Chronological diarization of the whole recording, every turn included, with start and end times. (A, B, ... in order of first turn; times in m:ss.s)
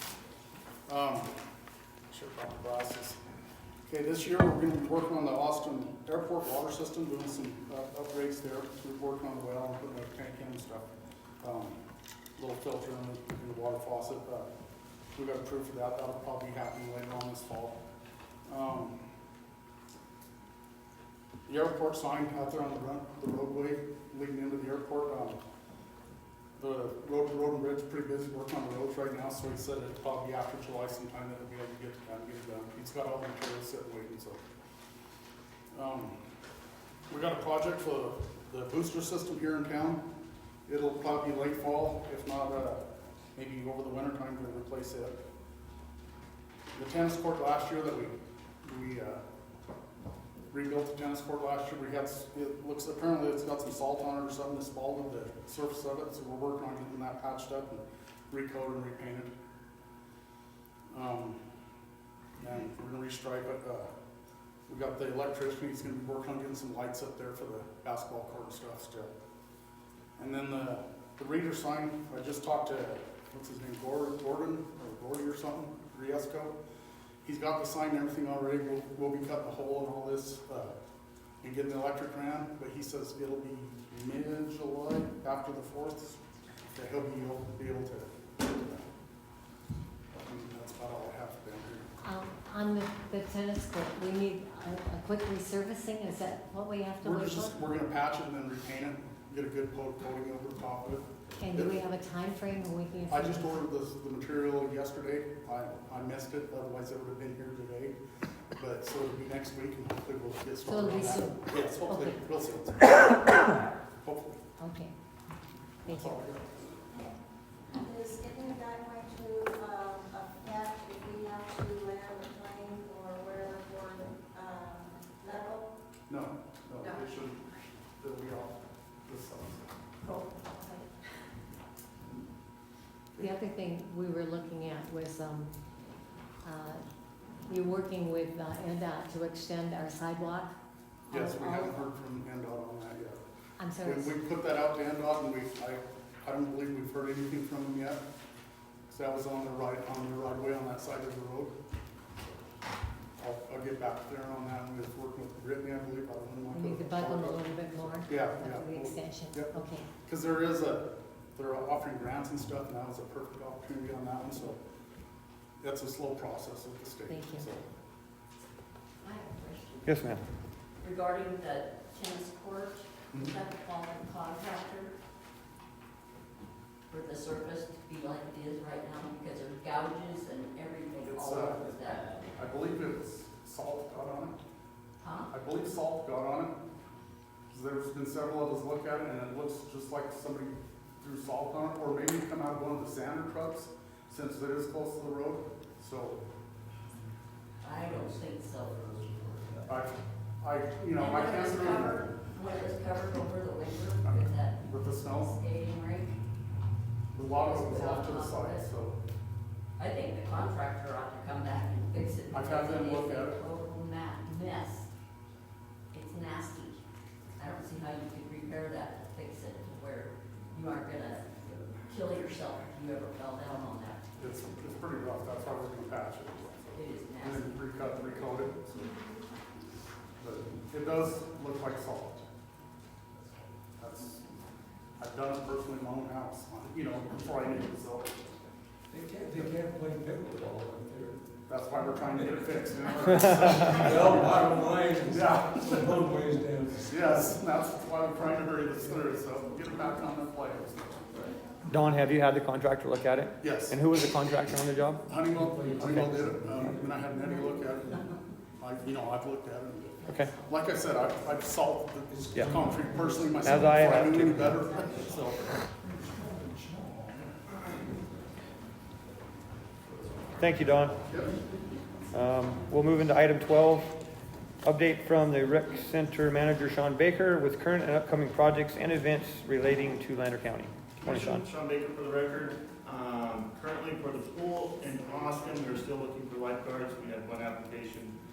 0:00.9-0:01.3 A
0:02.1-0:03.2 A
0:03.9-0:10.9 A
0:11.4-0:11.8 A
0:12.4-0:14.5 A
0:15.2-0:17.8 A
0:18.5-0:19.0 A
0:21.5-0:25.4 A
0:26.6-0:34.4 A
0:35.7-0:36.2 A
0:37.1-0:40.0 A
0:40.7-0:42.8 A
0:43.4-0:45.2 A
0:46.8-0:49.2 A
0:50.5-0:59.3 A
1:00.9-1:01.4 A
1:02.4-1:03.9 A
1:04.7-1:09.1 A
1:10.2-1:16.5 A
1:17.2-1:20.7 A
1:21.4-1:26.2 A
1:26.7-1:28.9 A
1:30.1-1:31.9 A
1:32.0-1:37.6 B
1:37.0-1:41.8 A
1:41.3-1:43.6 B
1:43.1-1:48.0 A
1:48.6-1:54.4 A
1:50.6-1:52.2 B
1:54.6-1:54.9 B
1:55.8-1:56.3 B
1:55.9-1:56.7 A
1:57.7-2:05.7 C
2:06.1-2:07.4 A
2:08.0-2:09.7 A
2:13.2-2:15.5 B
2:16.4-2:16.8 B
2:17.5-2:20.5 B
2:21.1-2:21.7 B
2:21.1-2:23.2 A
2:23.6-2:24.1 B
2:23.8-2:28.0 A
2:28.9-2:31.6 A
2:33.2-2:37.5 A
2:36.5-2:39.9 B
2:38.0-2:44.6 A
2:45.6-2:47.6 A
2:47.1-2:47.5 B
2:49.0-2:49.9 D
2:49.9-2:50.2 E
2:50.8-2:55.0 D
2:56.9-3:02.1 D
3:01.2-3:01.7 A
3:02.3-3:04.4 A
3:05.0-3:05.3 D
3:05.3-3:06.5 A
3:07.5-3:16.2 A
3:17.6-3:18.9 D
3:19.6-3:22.1 A
3:21.0-3:26.1 D
3:24.0-3:25.4 A
3:27.1-3:29.0 A
3:27.3-3:28.7 D
3:29.8-3:34.9 D
3:32.3-3:33.4 A
3:35.9-3:36.8 D
3:37.4-3:44.1 D
3:44.2-3:48.9 A
3:46.7-3:47.6 D
3:50.2-3:52.3 A
3:53.8-3:54.2 A
3:55.0-3:58.2 A
3:58.9-4:01.2 F
4:01.5-4:05.9 A
4:02.0-4:07.4 F
4:06.9-4:11.1 A
4:11.7-4:15.1 E
4:13.4-4:13.8 A
4:15.1-4:25.6 A
4:15.3-4:17.3 F
4:22.1-4:25.3 F
4:23.4-4:24.6 E
4:25.8-4:28.0 F
4:29.9-4:31.3 F
4:30.4-4:31.0 E
4:31.1-4:31.4 A
4:32.1-4:34.0 E
4:34.6-4:41.5 E
4:41.0-4:48.2 G